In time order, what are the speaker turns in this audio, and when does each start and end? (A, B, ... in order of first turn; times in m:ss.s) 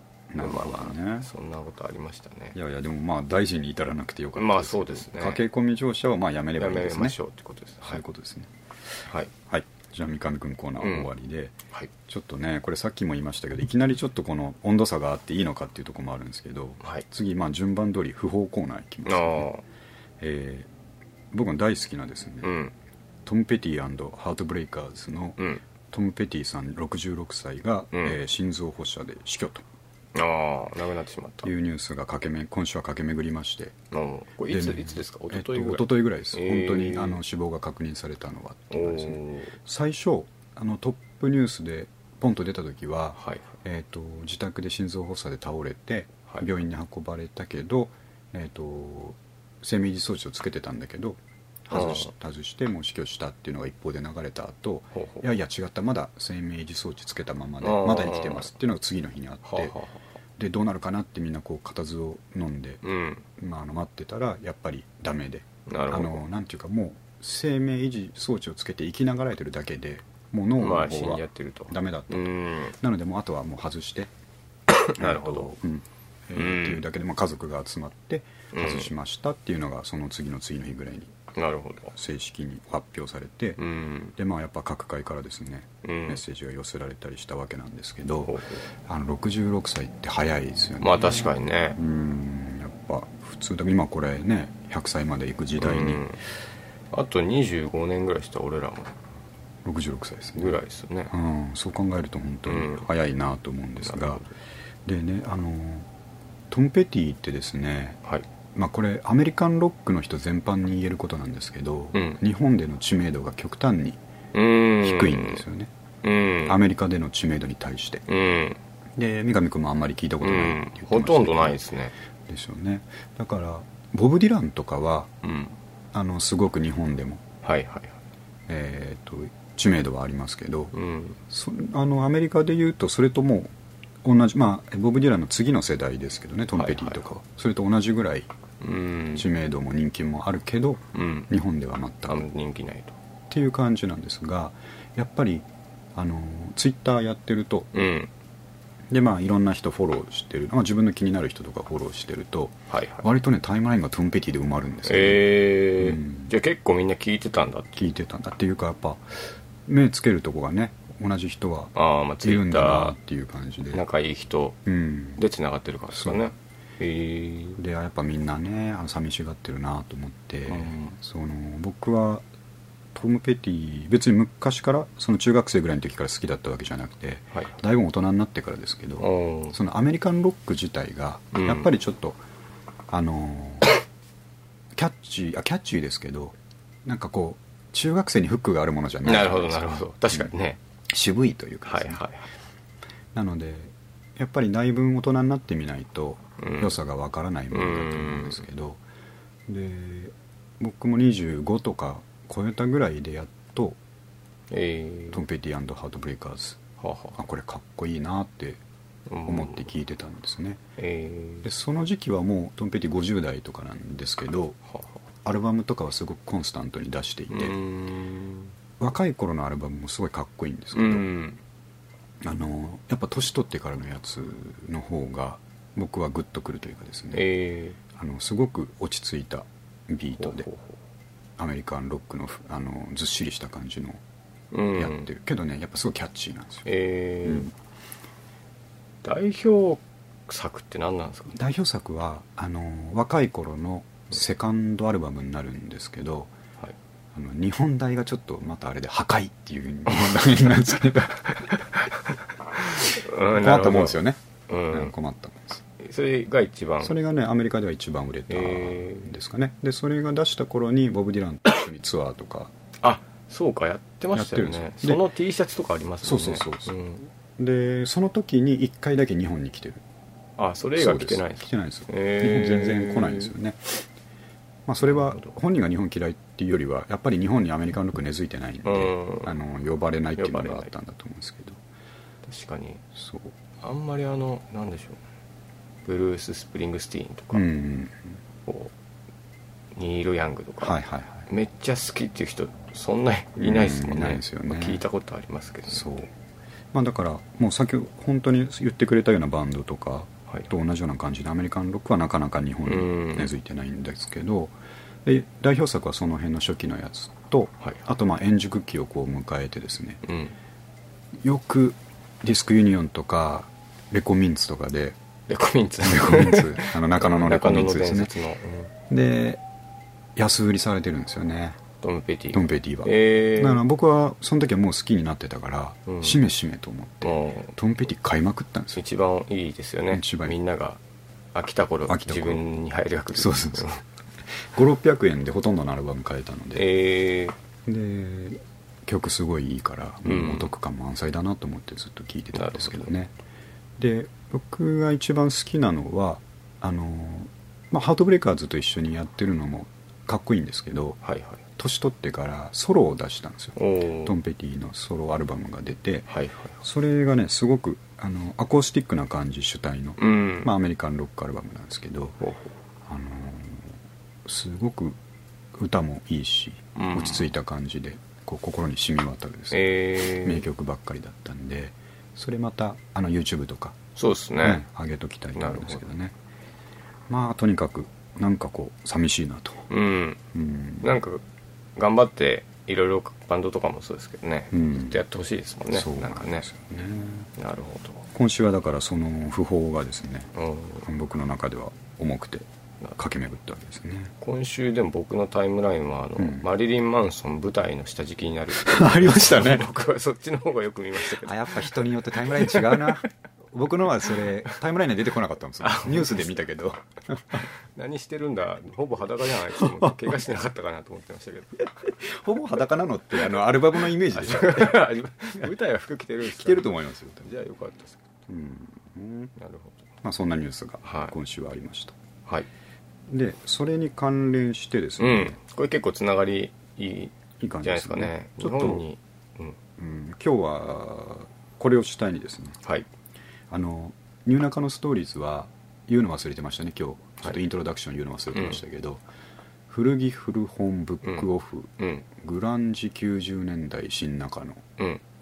0:00.3-0:01.3 A
0:00.4-0:02.6 B
0:02.5-0:07.2 A
0:04.4-0:05.4 B
0:06.6-0:08.0 B
0:07.8-0:08.5 A
0:09.0-0:09.3 B
0:09.5-0:11.5 A
0:10.8-0:11.1 B
0:12.1-0:19.5 A
0:19.0-0:19.6 B
0:20.2-0:20.7 A
0:21.3-0:22.6 A
0:22.4-0:22.7 B
0:23.2-0:29.6 A
0:27.9-0:28.2 B
0:30.1-0:31.5 B
0:31.4-0:33.8 A
0:33.9-0:37.2 B
0:34.5-0:59.8 A
0:38.7-0:39.5 B
0:43.2-0:43.4 B
0:51.7-0:52.1 B
0:54.9-0:55.2 B
0:57.6-0:58.5 B
0:59.4-1:00.0 B
1:00.4-1:02.8 A
1:02.8-1:03.2 B
1:03.4-1:14.1 A
1:05.7-1:06.2 B
1:10.6-1:12.7 B
1:14.7-1:15.5 B
1:14.9-1:21.1 A
1:16.3-1:16.8 B
1:18.5-1:18.9 B
1:21.3-1:21.9 B
1:21.9-1:23.6 A
1:23.6-1:24.1 B
1:24.2-1:36.0 A
1:25.8-1:26.2 B
1:28.2-1:28.6 B
1:30.8-1:31.8 B
1:35.6-1:36.2 B
1:36.9-1:39.0 B
1:39.6-1:44.2 A
1:40.4-1:41.1 B
1:42.4-1:42.9 B
1:43.8-1:44.3 B
1:44.8-1:45.9 A
1:46.5-1:48.0 A
1:48.5-1:54.0 A
1:51.9-1:52.2 B
1:54.3-1:55.4 B
1:54.8-1:55.7 A
1:56.0-1:56.6 B
1:56.4-1:58.0 A
1:58.1-1:58.6 B
1:59.0-2:01.6 A
2:00.2-2:01.9 B
2:02.3-2:05.1 A
2:05.2-2:05.6 B
2:05.9-2:07.2 A
2:07.4-2:08.0 B
2:08.5-2:10.7 A
2:10.7-2:11.2 B
2:11.3-2:13.5 A
2:14.0-2:18.3 A
2:16.5-2:17.0 B
2:18.6-2:19.3 B
2:19.1-2:22.2 A
2:20.9-2:21.3 B
2:22.1-2:23.0 B
2:23.3-2:27.8 A
2:27.7-2:28.1 B
2:28.9-2:36.3 A
2:32.7-2:33.0 B
2:34.8-2:37.8 B
2:37.8-2:43.8 A
2:41.7-2:43.0 B
2:43.7-2:44.6 B
2:44.6-2:45.2 A
2:45.2-2:47.6 B
2:45.9-2:46.2 A
2:47.6-2:52.2 A
2:50.5-2:50.9 B
2:52.9-3:02.2 A
2:59.0-2:59.6 B
3:01.3-3:01.7 B
3:02.9-3:03.7 A
3:04.7-3:10.3 A
3:09.0-3:10.6 B
3:10.9-3:12.0 A
3:11.7-3:12.3 B
3:13.1-3:18.8 A
3:16.4-3:16.7 B
3:17.5-3:18.4 B
3:19.5-3:23.8 A
3:24.5-3:25.2 B
3:25.1-3:26.6 A
3:26.8-3:27.2 B
3:27.2-3:28.6 A
3:29.1-3:29.7 B
3:29.2-3:30.6 A
3:30.8-3:31.5 B
3:31.4-3:34.6 A
3:35.2-3:37.5 A
3:37.3-3:38.5 B
3:38.8-3:41.1 A
3:40.7-3:41.4 B
3:42.2-3:47.3 A
3:47.1-3:47.8 B
3:47.9-3:50.5 A
3:50.2-3:50.8 B
3:51.4-3:54.0 A
3:54.5-3:55.1 B
3:54.8-3:56.7 A
3:56.6-3:57.5 B
3:57.2-3:57.5 A
3:59.0-4:01.3 B
4:01.3-4:06.3 A
4:07.1-4:11.9 A
4:11.9-4:14.9 B
4:12.7-4:14.2 A
4:14.7-4:15.6 A
4:15.8-4:16.9 B
4:16.8-4:22.5 A
4:18.3-4:19.1 B
4:22.8-4:27.0 B
4:24.1-4:25.0 A
4:26.0-4:26.8 A
4:27.4-4:29.8 A
4:30.4-4:33.3 B
4:30.8-4:33.8 A
4:34.6-4:41.6 A
4:34.9-4:35.3 B
4:38.6-4:39.3 B
4:40.2-4:40.7 B
4:42.2-4:42.8 B
4:42.9-4:43.4 A
4:43.6-4:45.0 B
4:45.8-4:47.4 B
4:47.3-4:48.1 A
4:48.5-4:48.7 B
4:49.7-4:50.8 B
4:50.6-4:51.3 A
4:51.3-4:55.9 B
4:53.4-4:54.8 A
4:55.7-4:56.1 A
4:56.7-5:04.5 A
5:02.7-5:03.3 B
5:05.0-5:10.0 A
5:10.0-5:10.3 B
5:11.2-5:15.0 A
5:15.3-5:18.7 B
5:15.8-5:18.1 A
5:18.9-5:19.4 A
5:20.2-5:21.6 A
5:21.8-5:23.6 B
5:22.3-5:28.8 A
5:25.9-5:26.2 B
5:27.0-5:27.5 B
5:28.8-5:30.8 B
5:29.9-5:30.3 A
5:31.3-5:33.8 B
5:31.9-5:32.4 A
5:33.1-5:33.7 A
5:34.5-5:36.7 A
5:36.6-5:37.4 B
5:37.7-5:43.1 A
5:40.0-5:40.5 B
5:42.3-5:42.9 B
5:43.8-5:51.0 A
5:51.0-5:51.4 B
5:51.6-5:56.1 A
5:53.6-5:54.1 B
5:56.1-5:56.5 B
5:56.6-6:02.2 A
6:00.0-6:00.5 B
6:02.2-6:02.5 B
6:02.9-6:03.7 A
6:04.2-6:05.0 A
6:05.6-6:13.8 A
6:06.8-6:07.3 B
6:09.5-6:10.4 B
6:14.0-6:14.6 B
6:14.4-6:16.1 A
6:15.4-6:15.9 B
6:17.1-6:19.7 A
6:19.7-6:20.2 B
6:20.3-6:20.9 A
6:20.8-6:21.2 B
6:21.8-6:26.5 B
6:24.5-6:25.0 A
6:25.7-6:27.3 A
6:27.4-6:28.0 B
6:28.1-6:30.3 A
6:30.3-6:30.8 B
6:30.8-6:34.1 A
6:34.2-6:43.0 B
6:36.2-6:36.4 A
6:38.5-6:39.6 A
6:41.2-6:47.5 A
6:44.1-6:44.3 B
6:45.6-6:46.4 B
6:47.4-6:51.6 B
6:49.5-6:50.1 A
6:51.8-6:54.8 A
6:53.9-6:58.0 B
6:56.2-6:57.3 A
6:58.3-6:59.3 A
6:59.4-6:59.8 B
7:00.0-7:02.0 A
7:00.8-7:01.1 B
7:03.1-7:05.4 A
7:05.0-7:09.6 B
7:07.4-7:08.8 A
7:09.8-7:12.6 A
7:13.5-7:19.0 A
7:18.3-7:18.6 B
7:19.7-7:24.6 A
7:21.8-7:22.0 B